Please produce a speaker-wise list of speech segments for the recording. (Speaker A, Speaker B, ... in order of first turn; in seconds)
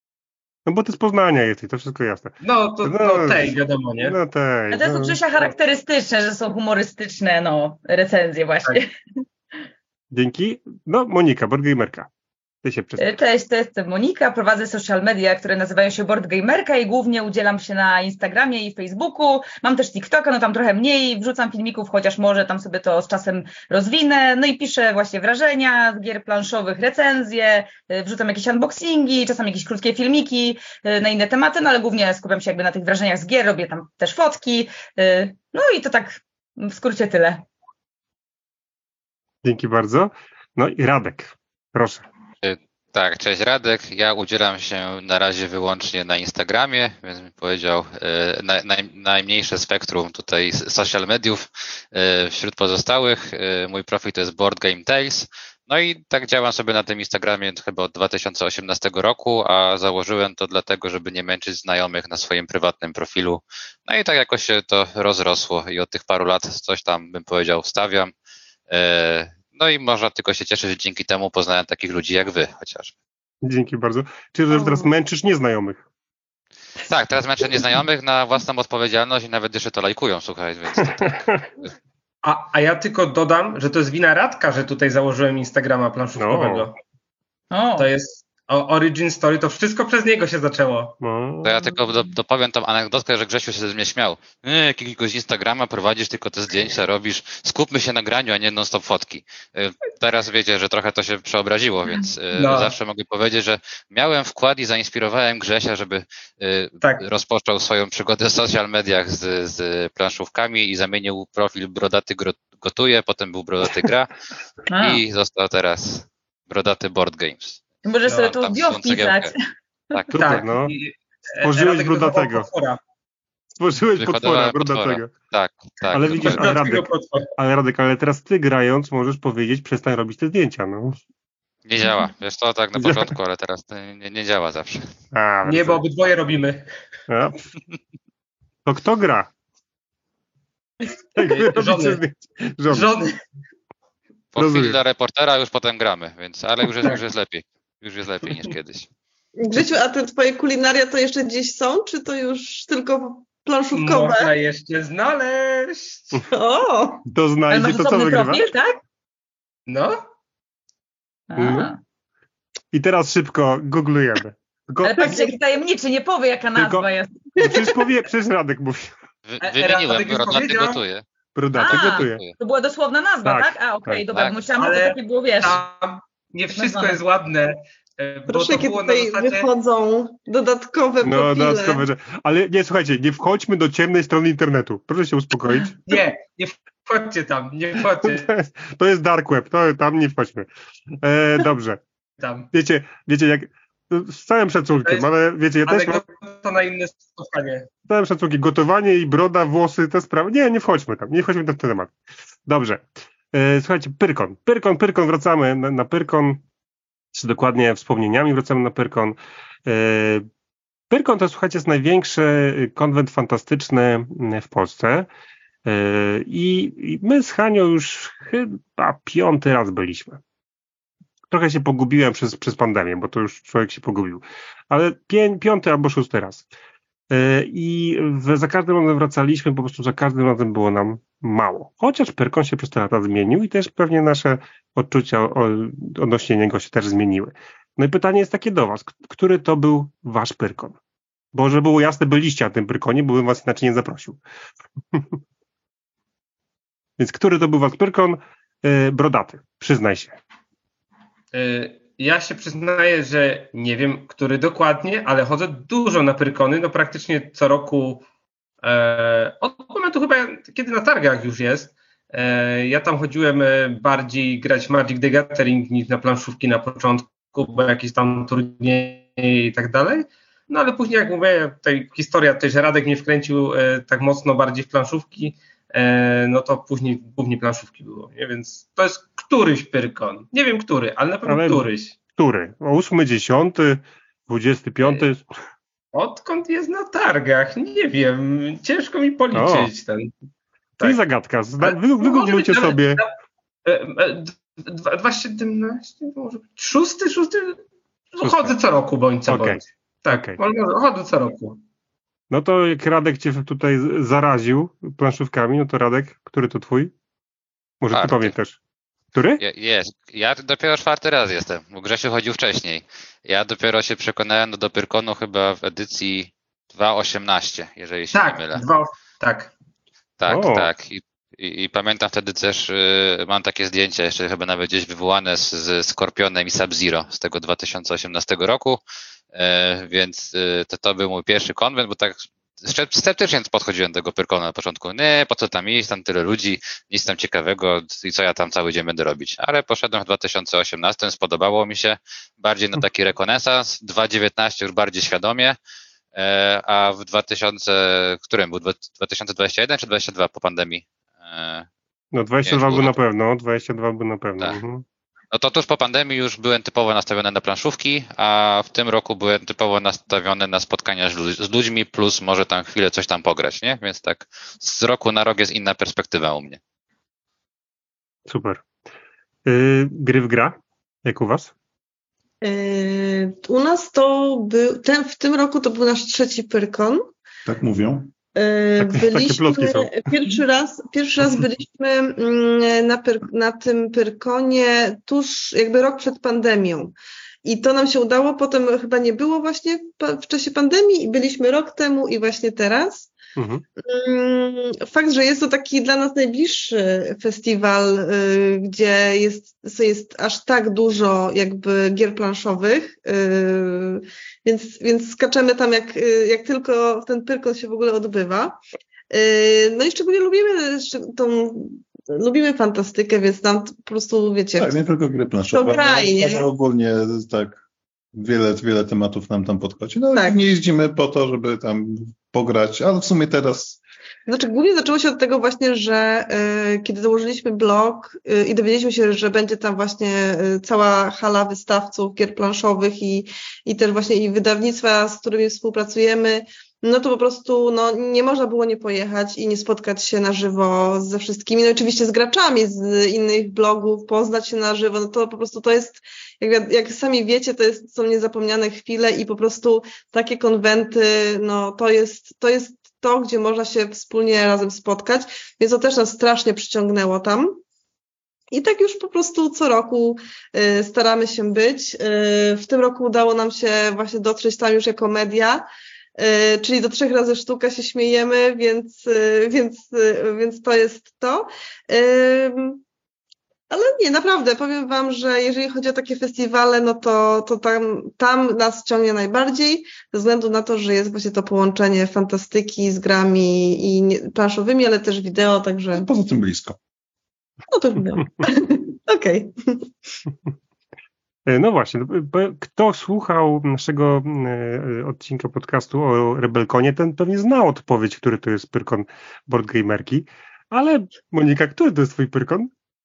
Speaker A: 0.7-5.2, 10.1-12.1, 12.6-13.0, 39.4-42.0, 73.4-75.8, 81.0-81.4, 86.2-86.7, 91.0-91.6, 120.1-120.7, 121.4-122.5, 123.6-125.1, 125.9-131.0, 132.8-133.1, 135.1-135.8, 137.1-137.4, 138.7-139.3, 141.2-142.9, 144.4-144.8, 157.1-158.5, 161.4-161.7, 162.7-165.4, 166.6-168.9, 171.4-172.2, 173.2-174.0, 181.0-185.8, 188.0-190.5, 191.0-191.8, 192.5-196.0, 197.9-201.9, 202.4-206.4, 207.1-210.3, 210.9-215.1, 215.7-220.2, 221.3-226.4, 227.1-240.8, 241.3-244.2, 247.0-250.2, 281.3-285.3, 289.3-289.7, 290.8-293.0, 298.2-298.5, 299.3-300.4, 302.3-306.9, 307.8-308.6, 309.1-309.4, 320.3-320.7, 352.1-354.8, 368.3-368.6, 369.4-371.5, 378.8-380.1, 393.4-393.6, 491.5-502.7
Speaker B: 2.4-4.2, 82.2-86.7, 87.8-90.9, 102.3-102.8, 120.1-122.8, 126.2-127.3, 135.4-136.7, 141.2-142.0, 142.7-143.1, 153.7-156.2, 159.7-160.0, 169.4-170.8, 174.6-179.5, 185.8-188.3, 192.2-192.5, 195.6-197.7, 251.3-258.0, 258.6-281.9, 285.9-290.1, 291.6-293.1, 293.6-297.6, 298.1-301.6, 318.1-319.5
Speaker C: 4.7-8.9, 13.0-37.4, 87.5-87.9, 114.7-115.0, 117.8-119.4, 157.5-158.8, 161.3-161.8, 164.8-167.1, 171.6-175.6, 176.5-177.0
Speaker D: 42.4-68.1, 68.7-72.9, 76.9-81.3, 91.4-114.1, 114.7-117.6, 118.2-119.3, 124.0-126.5, 131.7-134.9, 144.3-148.9, 169.3-171.0, 171.7-172.3, 307.9-308.3, 309.4-318.6, 320.2-328.8, 329.3-345.6, 346.1-351.7, 352.4-352.9, 355.3-366.6
Speaker E: 74.5-74.8, 149.4-154.3, 156.3-157.1, 178.3-181.9, 372.4-377.1, 378.4-393.1, 393.8-408.6, 409.1-414.7, 415.5-416.4, 424.3-457.6, 458.5-465.6, 466.2-472.8, 473.7-486.1, 487.7-489.9
Speaker F: 377.4-378.1, 414.6-417.6, 418.1-423.8, 485.9-486.8